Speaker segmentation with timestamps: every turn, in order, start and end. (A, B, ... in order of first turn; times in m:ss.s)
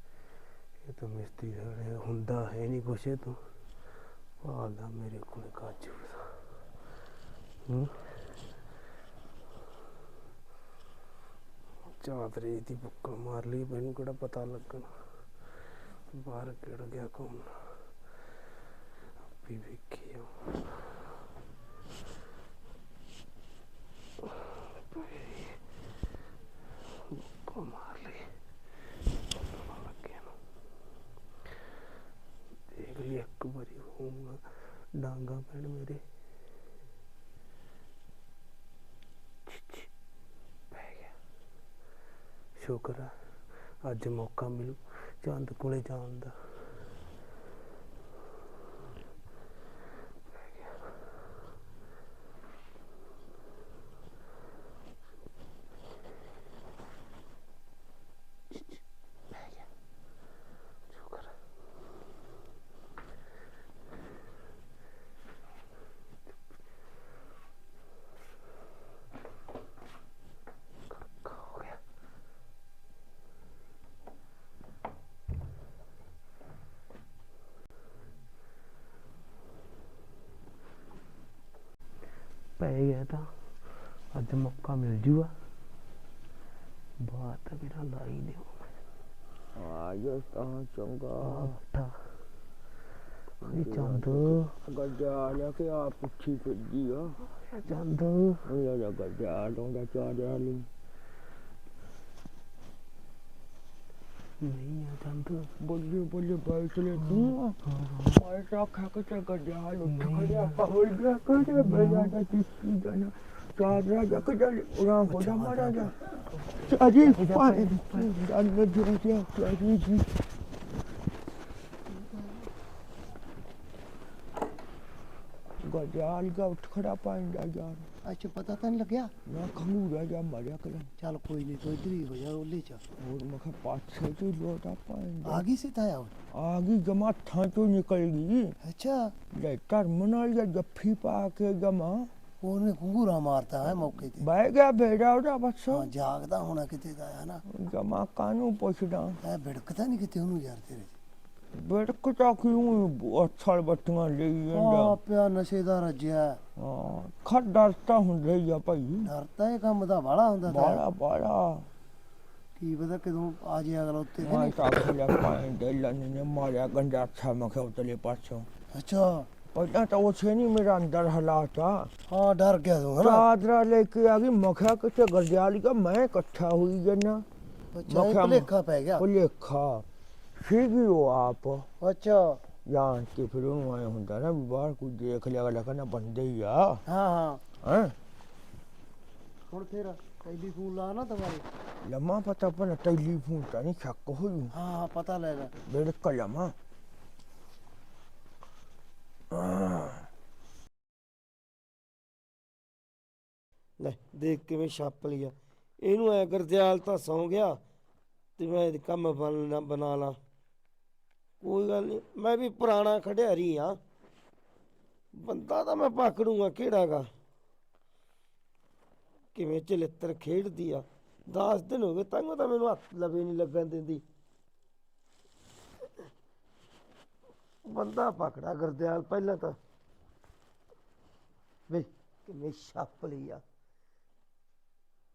0:00.8-0:03.4 A
0:04.4-0:06.4 A
0:07.7-0:08.1 A
0:11.9-0:14.9 A
0:16.1-0:17.7 A
0:19.2-0:20.8 A
0:24.3-0:25.6 A
0:27.1-0:28.4 A
0:29.4-0:30.4 A
0:32.7-0:36.0 A
0:39.5-0:39.9 A
0:40.7-0:41.2 A
0:42.6-0:43.1 A
0:43.8-0:46.3 A
0:50.3-0:50.9 A
0:58.5-0:58.8 A
0:59.3-0:59.7 A
1:00.9-1:01.4 A
1:10.9-1:11.8 A
1:22.6-1:23.3 A
1:24.1-1:25.4 A
1:27.0-1:28.7 A
1:29.6-1:31.5 B
1:31.2-1:32.0 A
1:33.4-1:37.2 B
1:33.4-1:34.5 A
1:37.5-1:38.4 A
1:38.5-1:40.7 B
1:44.4-1:45.5 A
1:45.6-1:47.6 B
1:47.0-1:48.2 A
1:48.1-1:55.9 B
1:49.8-1:50.6 A
1:51.5-1:52.1 A
1:55.1-1:55.9 C
1:56.3-1:58.1 A
1:56.7-2:00.1 B
2:01.9-2:02.5 C
2:05.6-2:07.9 B
2:08.0-2:09.1 C
2:09.3-2:10.9 B
2:11.0-2:12.8 C
2:13.0-2:15.4 B
2:15.2-2:16.1 C
2:16.3-2:18.6 B
2:18.6-2:19.1 C
2:19.3-2:22.1 B
2:22.4-2:24.2 C
2:24.0-2:25.9 B
2:25.7-2:27.4 C
2:27.5-2:29.2 B
2:29.2-2:30.9 C
2:31.5-2:35.0 B
2:34.5-2:36.4 C
2:36.6-2:39.1 B
2:39.0-2:40.8 C
2:40.5-2:41.7 B
2:42.6-2:44.6 C
2:44.2-2:48.5 B
2:48.7-2:49.3 C
2:49.5-2:51.9 B
2:52.1-2:53.2 C
2:53.0-2:57.2 B
2:57.7-2:59.0 C
2:57.9-2:59.8 B
3:00.4-3:01.7 B
3:01.8-3:02.4 C
3:02.7-3:06.8 B
3:06.9-3:07.4 C
3:07.6-3:07.9 B
3:09.5-3:11.4 C
3:11.8-3:14.5 B
3:14.5-3:15.5 C
3:15.7-3:16.5 B
3:19.3-3:20.0 B
3:23.8-3:27.6 D
3:28.4-3:30.2 D
3:31.4-3:33.8 D
3:35.2-3:37.1 D
3:39.4-3:44.0 D
3:47.7-3:49.6 D
3:51.7-3:53.4 D